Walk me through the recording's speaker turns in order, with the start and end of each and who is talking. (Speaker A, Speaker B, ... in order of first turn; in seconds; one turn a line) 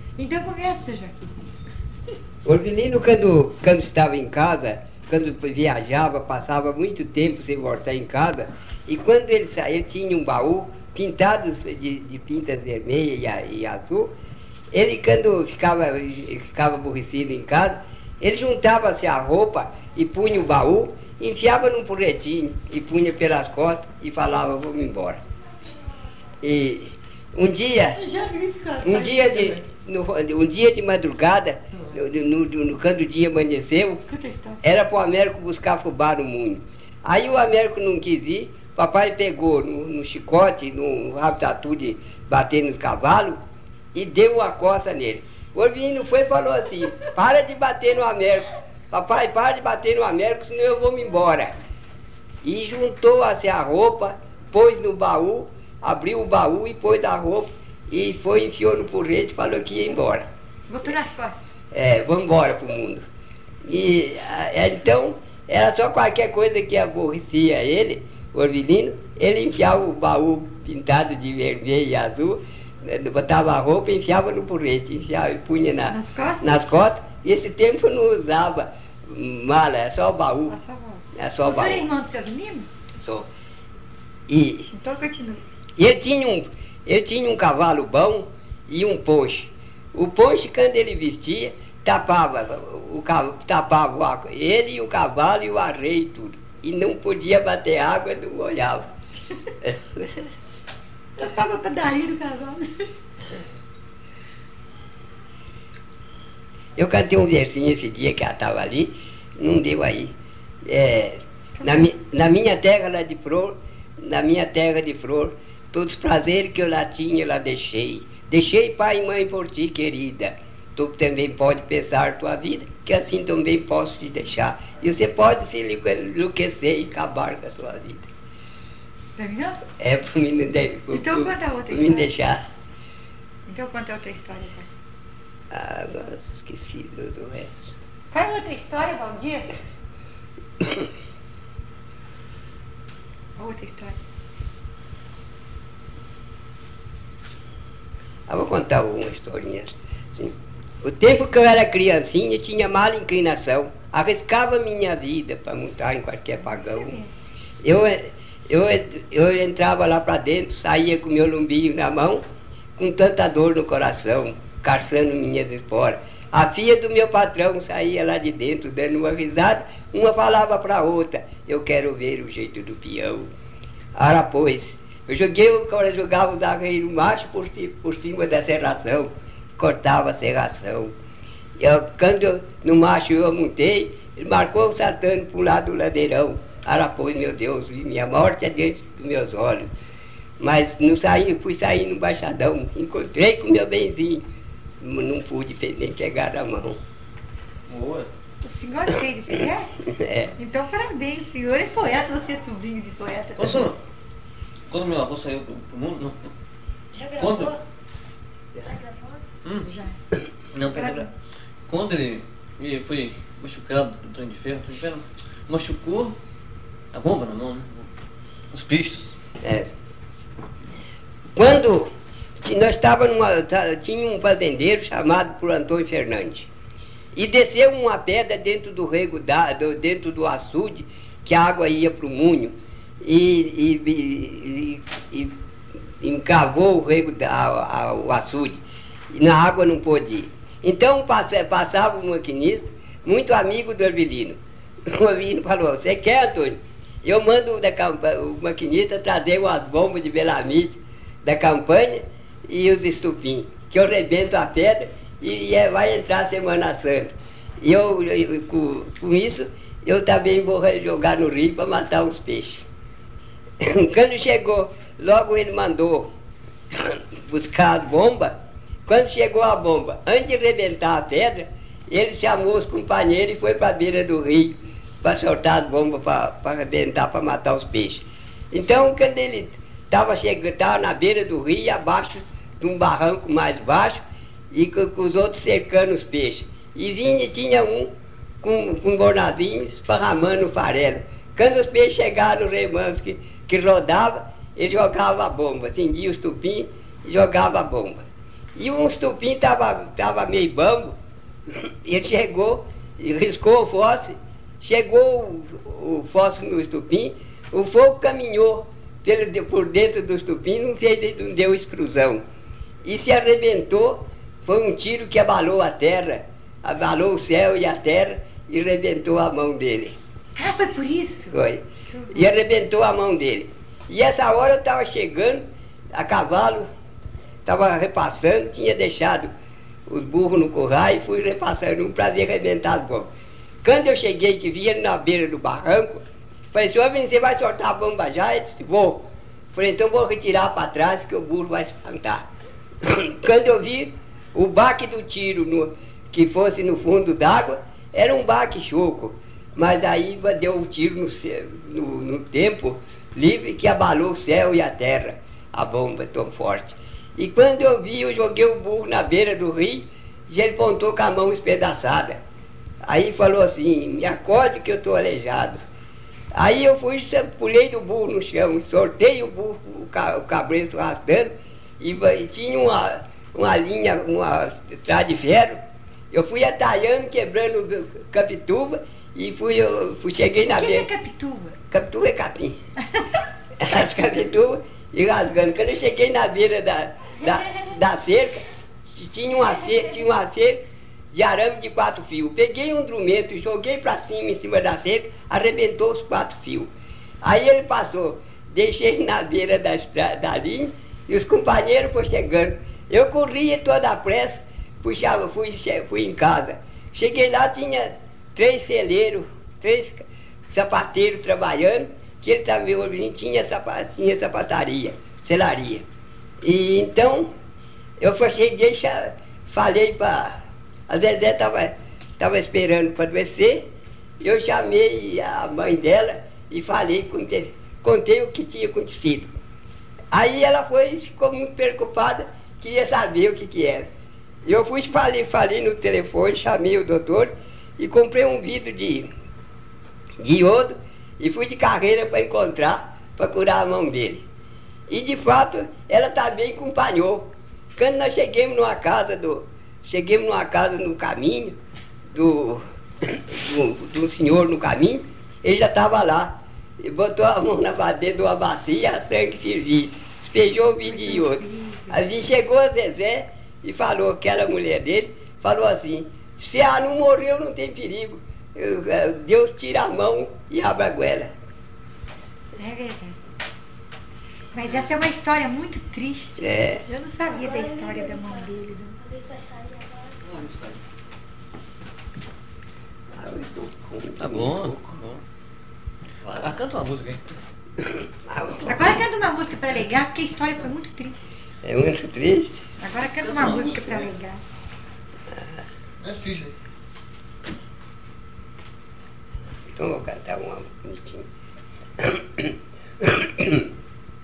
Speaker A: 0.2-1.4
Speaker B: 2.5-14.1
Speaker B: 14.7-25.2
Speaker B: 26.4-28.0
Speaker A: 28.0-29.6
Speaker B: 28.8-34.0
Speaker A: 34.1-34.6
Speaker B: 34.6-43.4
Speaker B: 44.0-51.5
Speaker B: 52.4-60.3
Speaker A: 60.7-61.4
Speaker B: 61.7-63.0
Speaker B: 63.6-80.6
Speaker A: 75.9-76.5
Speaker A: 80.5-82.7
Speaker B: 81.2-81.9
Speaker B: 83.0-83.3
Speaker B: 84.3-84.7
Speaker A: 84.7-85.4
Speaker B: 85.8-98.9
Speaker B: 99.6-100.3
Speaker A: 101.2-102.9
Speaker B: 106.8-110.1
Speaker B: 110.7-128.1
Speaker A: 111.6-111.9
Speaker A: 129.2-129.6
Speaker B: 129.8-132.4
Speaker A: 130.9-132.1
Speaker A: 133.5-134.7
Speaker B: 135.5-137.8
Speaker A: 138.1-139.5
Speaker B: 140.6-140.9
Speaker A: 143.4-144.0
Speaker B: 148.3-157.0
Speaker A: 156.5-157.1
Speaker B: 157.6-162.2
Speaker B: 162.8-173.3
Speaker B: 173.9-180.9
Speaker B: 181.6-189.7
Speaker B: 190.4-194.2
Speaker B: 194.8-196.8
Speaker C: 197.7-198.1
Speaker A: 198.4-199.7
Speaker B: 199.8-200.3
Speaker A: 200.4-203.7
Speaker C: 203.4-203.8
Speaker C: 204.7-206.3
Speaker A: 206.9-207.6
Speaker C: 207.1-207.6
Speaker C: 209.4-209.7
Speaker A: 209.6-210.0
Speaker C: 210.5-211.1
Speaker A: 210.7-211.1
Speaker C: 211.7-216.2
Speaker C: 216.9-217.9
Speaker C: 218.5-219.2
Speaker B: 219.4-219.7
Speaker B: 221.4-221.9
Speaker B: 222.4-226.5
Speaker B: 227.2-235.3
Speaker B: 236.0-238.6
Speaker B: 239.1-262.7
Speaker B: 263.6-266.1
Speaker B: 266.7-268.3
Speaker B: 268.9-287.9
Speaker B: 288.4-298.1
Speaker B: 298.6-300.9
Speaker B: 301.5-312.2
Speaker B: 312.8-320.0
Speaker A: 320.4-321.4
Speaker B: 321.3-326.7
Speaker A: 321.9-322.3
Speaker B: 327.5-329.3
Speaker B: 329.9-333.1
Speaker B: 333.6-336.0
Speaker B: 336.5-342.2
Speaker B: 342.8-362.2
Speaker B: 362.9-365.6
Speaker B: 366.3-375.6
Speaker B: 376.1-380.9
Speaker A: 380.5-381.6
Speaker B: 381.7-382.6
Speaker B: 383.6-390.6
Speaker B: 391.1-396.7
Speaker B: 397.2-415.9
Speaker B: 416.4-417.3
Speaker B: 418.0-420.3
Speaker B: 420.9-423.7
Speaker B: 424.2-429.3
Speaker B: 430.1-433.9
Speaker B: 434.4-439.1
Speaker B: 440.2-444.2
Speaker B: 444.9-451.6
Speaker B: 452.1-471.3
Speaker A: 460.9-462.0
Speaker A: 472.5-473.2
Speaker A: 474.5-479.2
Speaker B: 476.4-476.8
Speaker C: 480.2-480.8
Speaker B: 483.1-484.8
Speaker C: 484.2-485.2
Speaker C: 486.2-487.3
Speaker B: 487.9-488.8
Speaker A: 488.6-491.2
Speaker B: 491.6-492.7
Speaker A: 492.8-494.4
Speaker C: 493.2-494.1
Speaker C: 496.0-496.5
Speaker B: 499.7-501.3
Speaker B: 502.0-503.7